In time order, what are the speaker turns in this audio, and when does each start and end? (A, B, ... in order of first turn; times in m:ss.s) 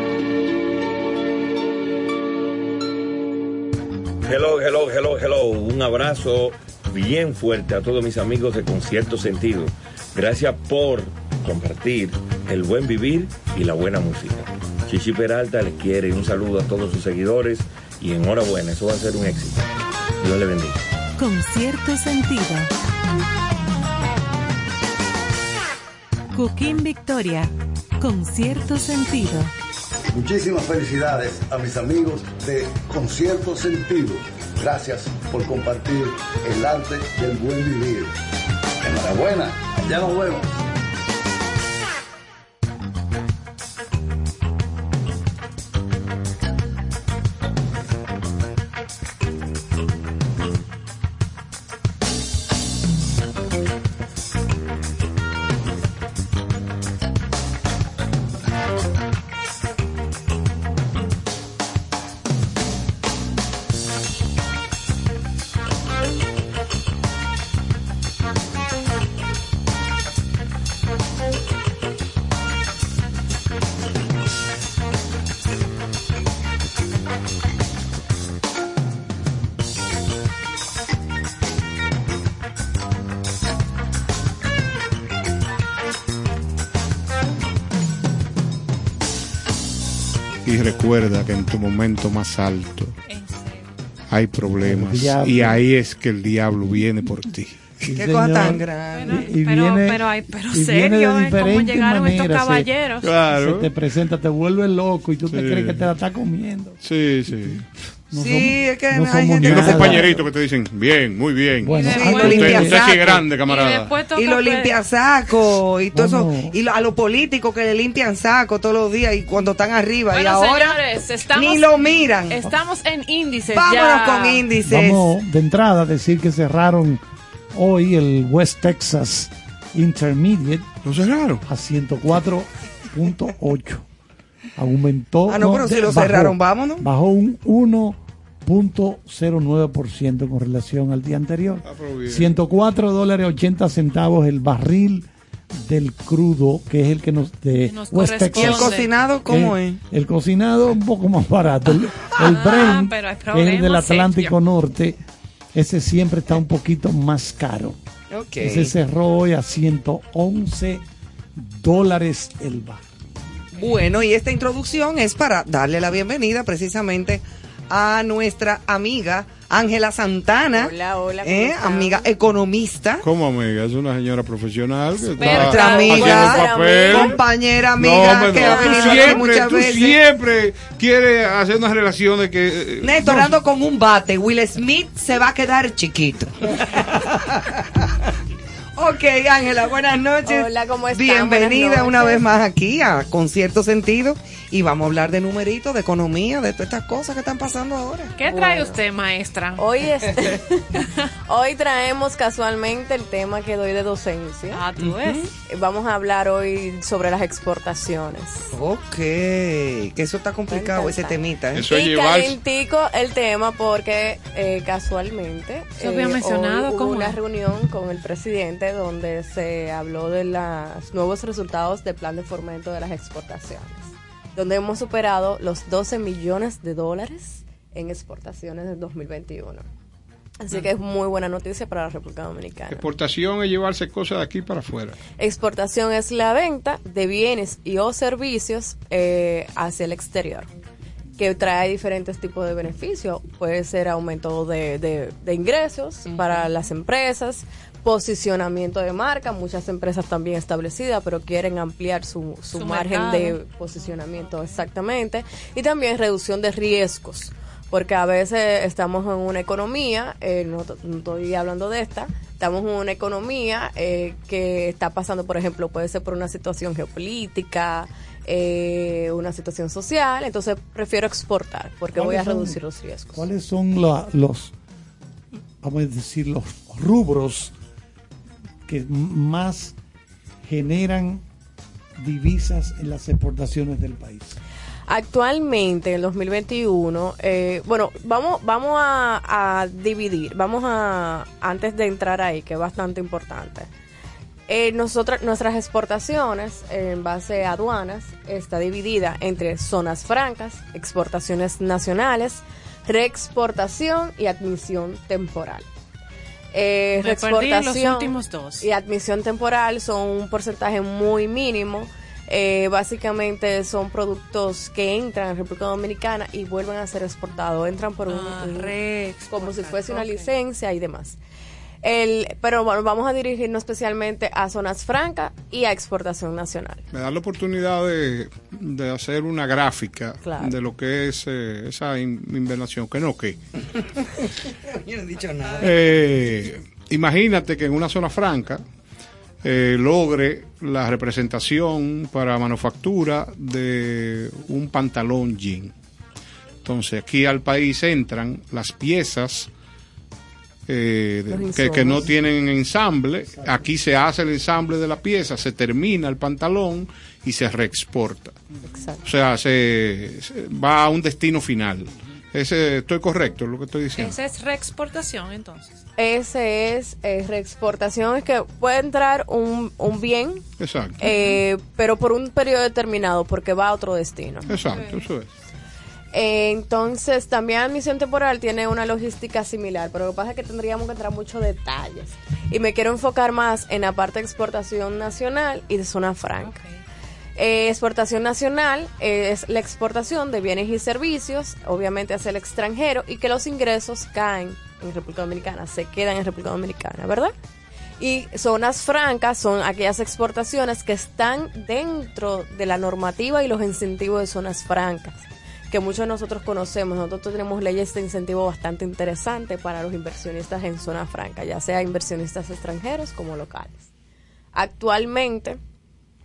0:04.2-0:19.6 A
0:20.2-0:20.8 A
0:21.2-0:22.7 B
0:26.3-0:29.5 B
0:30.1-0:38.1 C
0:38.8-0:40.5 C
1:30.4-1:32.9 D
1:33.1-1:33.7 E
1:34.1-1:37.6 D
1:34.6-1:35.6 F
1:37.8-1:42.7 F
1:37.9-1:39.2 G
1:38.9-1:43.1 E
1:43.0-1:43.7 D
1:43.3-1:50.2 F
1:45.3-1:45.8 D
1:46.8-1:47.6 D
1:48.1-1:50.1 G
1:49.4-1:53.9 D
1:51.6-1:53.0 F
1:51.7-1:52.7 E
1:51.8-1:53.2 G
1:53.4-1:54.7 E
1:54.1-2:02.4 G
1:55.9-1:56.5 F
2:00.1-2:04.4 E
2:03.5-2:05.1 G
2:04.6-2:07.0 F
2:07.5-2:10.7 F
2:10.8-2:11.4 D
2:11.5-2:13.8 F
2:14.6-2:35.0 F
2:15.3-2:16.8 G
2:21.6-2:22.4 D
2:27.6-2:28.9 E
2:28.4-2:29.8 G
2:32.2-2:34.3 E
2:35.5-2:37.8 F
2:38.1-2:38.7 G
2:38.4-2:42.8 F
2:43.5-2:53.0 G
2:50.5-2:52.1 H
2:53.0-2:57.2 D
2:55.2-2:57.2 H
2:55.2-3:00.0 G
2:57.8-3:03.3 D
2:58.1-2:59.2 H
3:02.8-3:07.6 G
3:08.8-3:18.1 G
3:10.2-3:12.2 H
3:18.2-3:19.6 E
3:18.2-3:18.7 H
3:19.6-3:20.7 H
3:21.3-3:24.6 H
3:24.5-3:25.2 E
3:24.8-3:25.3 G
3:25.4-3:28.5 H
3:28.5-3:31.7 G
3:30.5-3:49.6 H
3:31.5-3:32.4 D
3:35.8-3:37.2 E
3:50.4-3:52.8 H
3:52.7-3:55.0 D
3:55.2-4:00.5 H
4:01.2-4:33.2 H
4:06.1-4:06.4 G
4:12.5-4:13.4 E
4:31.9-4:32.6 F
4:33.1-4:34.5 F
4:35.6-4:37.5 F
4:38.6-4:39.8 F
4:40.4-4:41.2 F
4:42.0-4:44.4 F
4:44.9-4:53.7 H
4:54.5-5:05.7 H
5:06.5-5:18.7 H
5:07.0-5:08.7 E
5:18.1-5:20.3 E
5:19.3-5:21.2 H
5:21.8-5:26.8 H
5:26.9-5:33.4 D
5:30.2-5:30.5 H
5:33.8-5:35.7 G
5:35.6-5:38.6 D
5:39.4-5:45.7 D
5:46.6-5:49.5 D
5:50.7-5:58.4 D
5:51.3-5:52.1 H
5:51.3-5:52.0 F
5:53.4-5:53.7 F
5:58.6-5:59.0 H
5:59.0-6:04.1 D
6:04.0-6:05.8 E
6:06.0-6:10.4 H
6:10.6-6:11.0 D
6:11.0-6:14.5 H
6:11.0-6:11.3 E
6:14.5-6:15.3 D
6:14.5-6:15.0 E
6:16.1-6:26.6 H
6:26.4-6:26.8 E
6:27.4-6:37.3 H
6:38.0-6:53.8 H
6:54.5-6:55.6 H